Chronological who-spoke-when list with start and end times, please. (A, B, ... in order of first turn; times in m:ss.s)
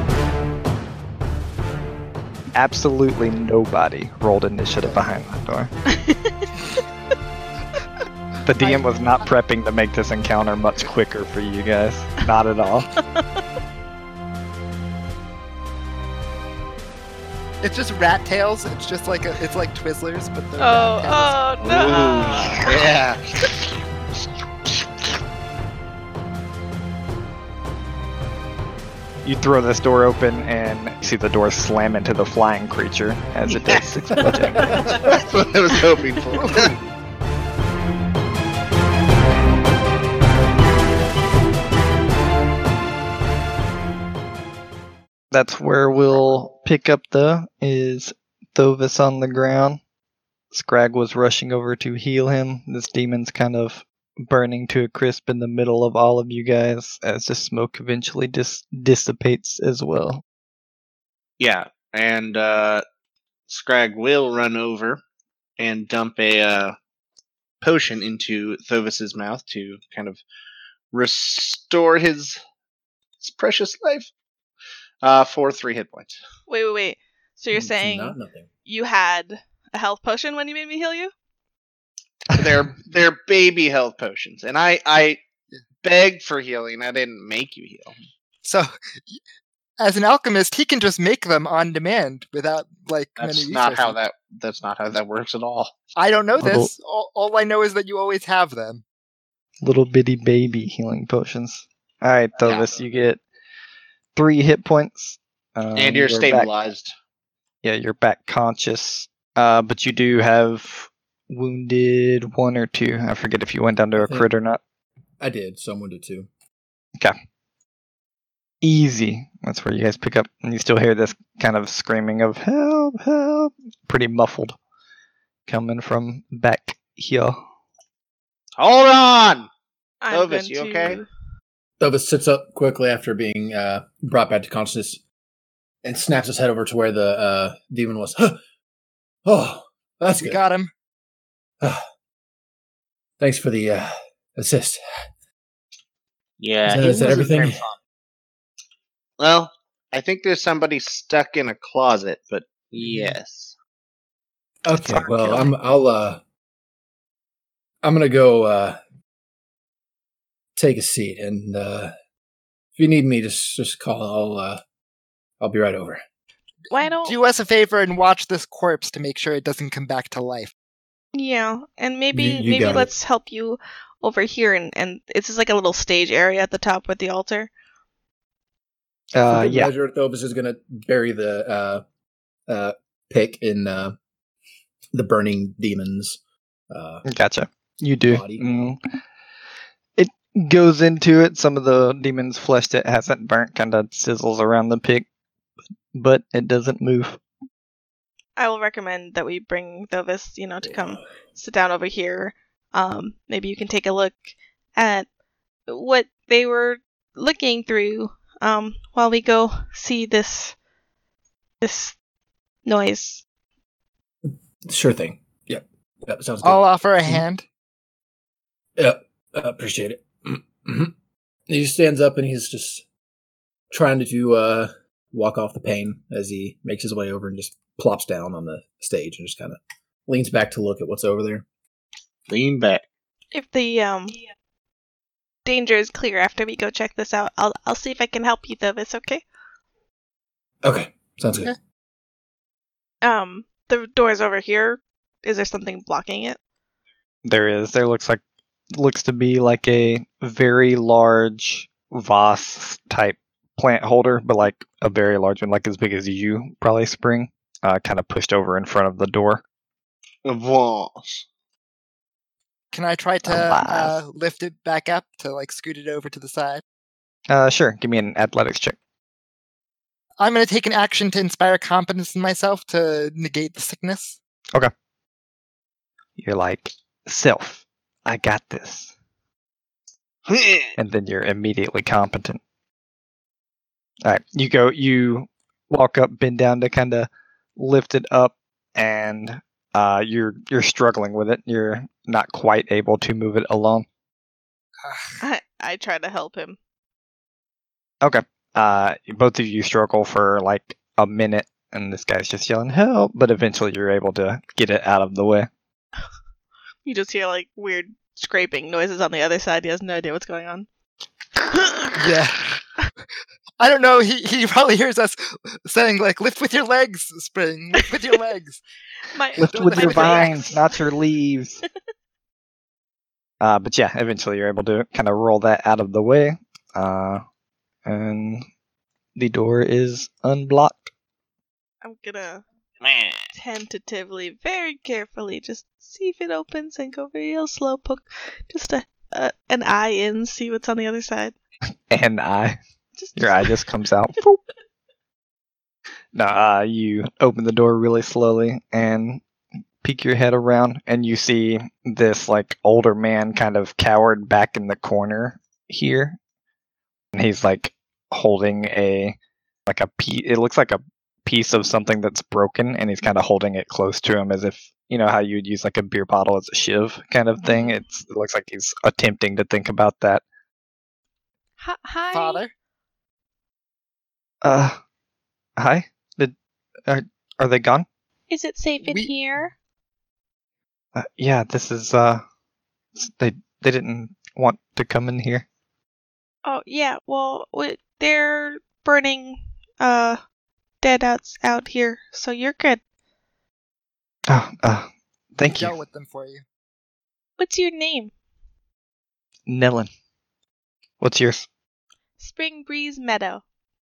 0:02.6-0:05.7 A
0:05.9-0:06.5 B
0:08.4-0:13.0 A
0:08.6-0:09.3 C
0:13.1-0:13.4 B
0:17.6-0:21.4 C
0:20.6-0:22.7 B
0:21.6-0:23.5 D
0:21.6-0:22.5 E
0:29.2-0:34.8 A
0:33.5-0:34.0 D
0:34.2-0:35.2 E
0:34.9-0:36.8 D
0:36.4-0:36.7 C
0:45.3-0:49.8 A
0:50.5-1:00.2 A
1:01.4-1:02.8 D
1:03.5-1:05.0 D
1:05.6-1:06.8 D
1:07.6-1:10.2 D
1:10.9-1:12.4 D
1:13.2-1:14.1 D
1:15.0-1:16.2 D
1:16.5-1:21.1 B
1:17.5-1:18.5 E
1:22.4-1:25.2 D
1:25.8-1:28.0 D
1:28.4-1:29.2 C
1:29.8-1:34.0 C
1:33.2-1:35.7 D
1:36.0-1:38.8 C
1:36.4-1:36.7 A
1:39.6-1:43.2 A
1:42.4-1:42.7 D
1:44.2-1:46.5 A
1:45.8-1:46.9 D
1:47.6-1:54.6 A
1:54.0-1:54.3 E
1:55.2-1:56.3 E
1:58.6-2:04.6 A
2:05.5-2:07.4 A
2:08.6-2:09.5 D
2:10.0-2:11.1 B
2:10.1-2:11.0 D
2:11.8-2:15.0 E
2:15.8-2:18.4 E
2:19.2-2:20.4 E
2:20.2-2:20.7 C
2:23.2-2:24.8 E
2:26.4-2:27.8 D
2:26.7-2:27.6 E
2:29.2-2:33.6 D
2:32.8-2:33.2 E
2:34.6-2:36.2 E
2:34.8-2:35.4 D
2:37.8-2:38.8 E
2:40.6-2:41.9 E
2:42.8-2:44.6 E
2:45.4-2:46.0 E
2:46.7-2:47.2 B
2:47.0-2:50.5 C
2:51.1-2:57.5 B
2:52.1-2:52.9 E
2:59.1-2:59.7 A
2:59.3-3:01.8 E
3:02.5-3:04.0 E
3:04.9-3:06.2 E
3:06.7-3:07.0 E
3:07.1-3:08.8 A
3:08.1-3:08.7 E
3:10.0-3:15.1 A
3:15.9-3:17.2 A
3:18.4-3:25.1 B
3:20.7-3:21.0 E
3:25.7-3:30.6 B
3:31.6-3:32.0 B
3:32.6-3:33.2 B
3:34.7-3:37.2 E
3:36.4-3:37.4 C
3:38.8-3:40.9 E
3:41.5-3:42.8 E
3:43.7-3:51.4 E
3:52.3-3:52.8 D
3:53.3-3:54.2 B
3:55.4-3:59.2 B
4:00.6-4:01.6 E
4:03.0-4:06.4 B
4:07.2-4:08.2 A
4:08.7-4:19.4 A
4:20.2-4:21.3 D
4:22.7-4:26.6 C
4:23.2-4:24.0 A
4:27.3-4:28.8 A
4:30.2-4:34.2 C
4:36.2-4:38.9 A
4:40.3-4:40.7 D
4:40.8-4:42.4 A
4:44.0-4:53.9 A
4:55.2-4:56.6 B
4:58.0-5:05.5 A
5:06.8-5:10.7 B
5:11.4-5:12.0 B
5:11.9-5:12.4 C
5:13.6-5:18.6 C
5:19.1-5:20.8 B
5:19.3-5:20.6 C
5:19.4-5:21.6 A
5:23.4-5:27.2 A
5:27.8-5:28.5 A
5:29.2-5:30.9 A
5:31.8-5:32.4 B
5:32.8-5:33.2 D
5:33.3-5:41.4 B
5:41.9-5:42.6 A
5:43.0-5:43.5 B
5:43.2-5:44.4 A
5:46.1-5:49.2 A
5:49.8-5:56.2 A
5:57.1-5:59.2 A
5:59.7-6:10.2 A
6:07.4-6:07.8 B
6:11.6-6:12.4 B
6:12.1-6:12.5 C
6:14.4-6:14.8 A
6:15.6-6:16.3 A
6:16.9-6:17.9 A
6:18.3-6:19.5 B
6:18.8-6:19.1 C
6:21.0-6:22.2 A
6:23.0-6:25.5 A
6:26.4-6:30.2 B
6:30.8-6:32.8 B
6:34.3-6:35.8 A
6:35.5-6:36.4 C
6:37.4-6:38.1 B
6:39.5-6:39.9 A
6:41.0-6:41.5 A
6:42.2-6:43.4 B